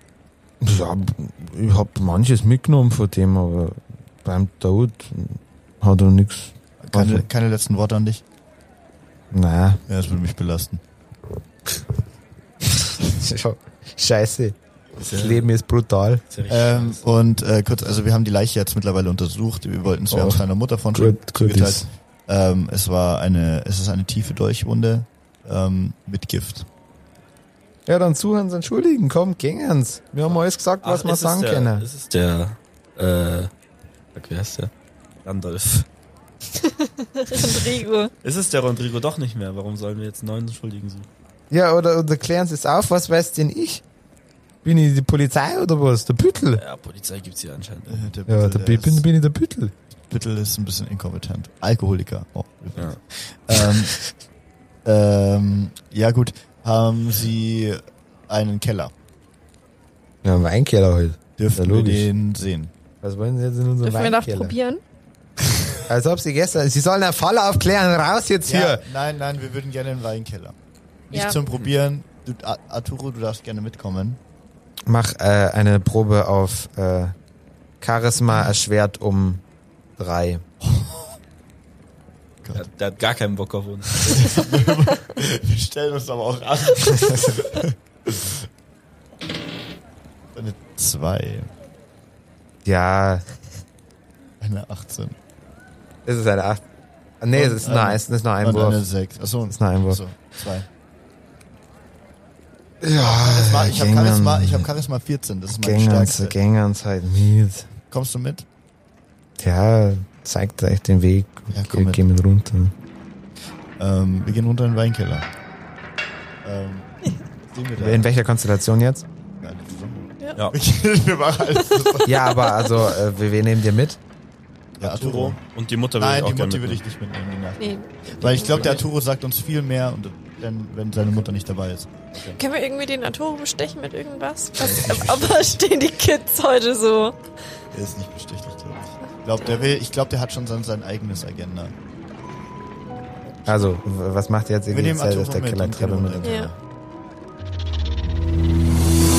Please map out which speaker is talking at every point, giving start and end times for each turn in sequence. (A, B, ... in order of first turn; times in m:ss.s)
0:00.6-0:07.3 A
0:06.8-0:08.2 B
0:09.3-0:09.8 A
0:09.9-0:10.8 B
0:13.0-0:14.6 A
0:15.0-0:15.5 C
0:15.1-0:16.2 A
0:16.3-0:17.0 C
0:16.5-0:26.7 B
0:20.1-0:20.4 A
0:20.9-0:21.9 A
0:27.9-0:31.9 A
0:30.3-0:33.5 C
0:34.2-0:34.7 C
0:35.2-0:35.9 C
0:36.6-0:38.1 D
0:38.2-0:41.1 C
0:41.5-0:43.8 A
0:44.6-0:46.6 A
0:46.5-0:48.1 C
0:47.9-0:49.0 B
0:48.3-0:49.7 A
0:50.0-0:54.0 B
0:54.8-0:58.9 B
1:00.2-1:02.1 A
1:01.4-1:02.7 B
1:03.0-1:04.6 A
1:03.8-1:04.8 D
1:05.9-1:08.8 A
1:08.4-1:10.6 B
1:11.1-1:14.2 B
1:11.1-1:11.4 D
1:14.9-1:17.1 A
1:17.8-1:19.4 A
1:20.0-1:20.4 A
1:20.6-1:20.9 B
1:22.4-1:22.7 B
1:22.5-1:24.5 C
1:24.0-1:28.3 B
1:30.3-1:31.5 B
1:32.6-1:33.2 A
1:34.4-1:35.2 B
1:36.1-1:36.6 A
1:37.2-1:38.8 A
1:37.3-1:40.7 B
1:39.5-1:40.0 A
1:42.8-1:44.7 A
1:42.9-1:46.4 B
1:45.6-1:47.7 A
1:47.9-1:48.5 B
1:49.4-1:52.7 A
1:51.5-1:52.0 B
1:53.8-1:55.3 B
1:56.4-1:56.9 B
1:57.5-1:58.1 B
1:57.8-1:59.0 A
1:59.4-2:02.1 B
2:02.1-2:04.0 A
2:04.8-2:06.8 C
2:04.8-2:05.4 B
2:06.0-2:12.4 B
2:07.6-2:08.7 D
2:08.3-2:08.8 C
2:12.4-2:17.2 D
2:14.6-2:15.6 B
2:17.7-2:21.8 B
2:23.5-2:26.4 A
2:24.7-2:26.6 B
2:26.2-2:26.5 D